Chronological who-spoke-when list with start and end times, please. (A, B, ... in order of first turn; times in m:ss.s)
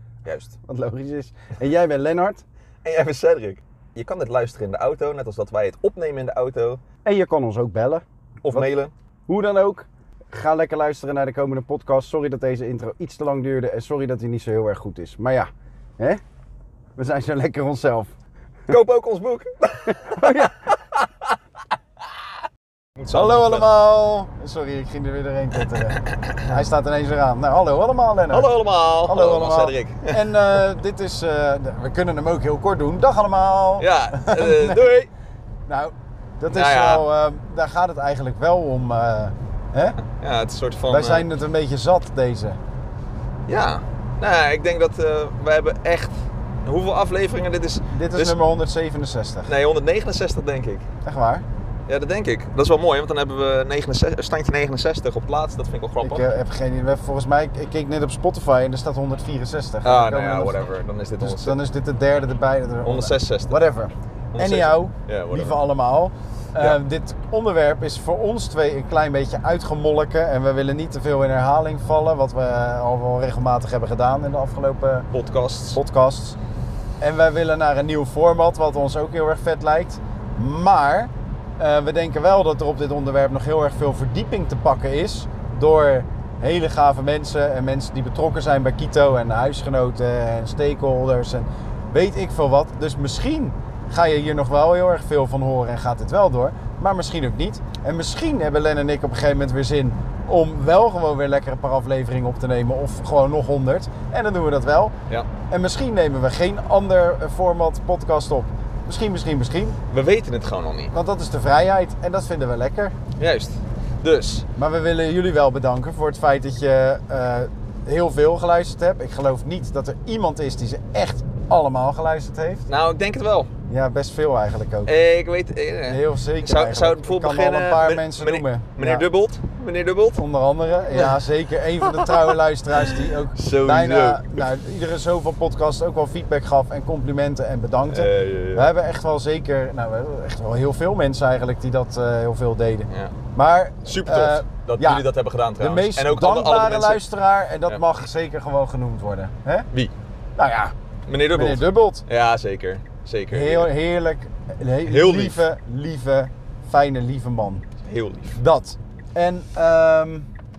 0:00.2-0:00.6 A
0:00.6-0:02.4 B
0:02.8-0:06.8 A
0:07.0-0:08.7 B
0:08.4-0:08.9 A
0:09.3-0:16.2 B
0:17.0-0:18.1 B
0:18.7-0:21.3 A
0:19.9-0:20.7 B
0:23.0-0:23.7 A
0:23.1-0:28.5 B
0:26.0-0:26.4 A
0:28.3-0:30.3 A
0:29.0-0:34.9 B
0:33.8-0:35.1 A
0:35.7-0:40.0 B
0:36.5-0:37.1 A
0:40.0-0:41.3 A
0:40.9-0:42.6 B
0:43.5-0:48.4 A
0:47.9-0:49.5 B
0:49.4-0:50.9 A
0:51.0-0:51.4 B
0:51.9-0:56.3 A
0:56.0-1:00.7 B
0:59.8-1:01.6 A
1:01.2-1:15.1 B
1:02.8-1:03.6 A
1:04.3-1:05.6 A
1:15.1-1:15.8 A
1:15.7-1:16.4 B
1:17.0-1:44.9 B
1:45.5-1:49.8 B
1:49.9-1:50.9 A
1:50.9-1:52.9 B
1:53.2-1:54.4 A
1:54.6-2:02.6 B
2:02.7-2:03.5 A
2:03.7-2:04.9 B
2:04.9-2:10.2 A
2:05.8-2:09.1 B
2:10.2-2:25.1 B
2:11.9-2:12.2 A
2:12.8-2:14.5 A
2:17.9-2:18.7 A
2:22.9-2:23.1 A
2:23.8-2:27.0 A
2:25.6-2:29.7 B
2:30.4-2:30.7 B
2:31.1-2:33.7 A
2:31.3-2:32.0 B
2:33.3-2:37.6 B
2:34.8-2:35.4 A
2:37.8-2:38.4 A
2:38.4-2:40.3 B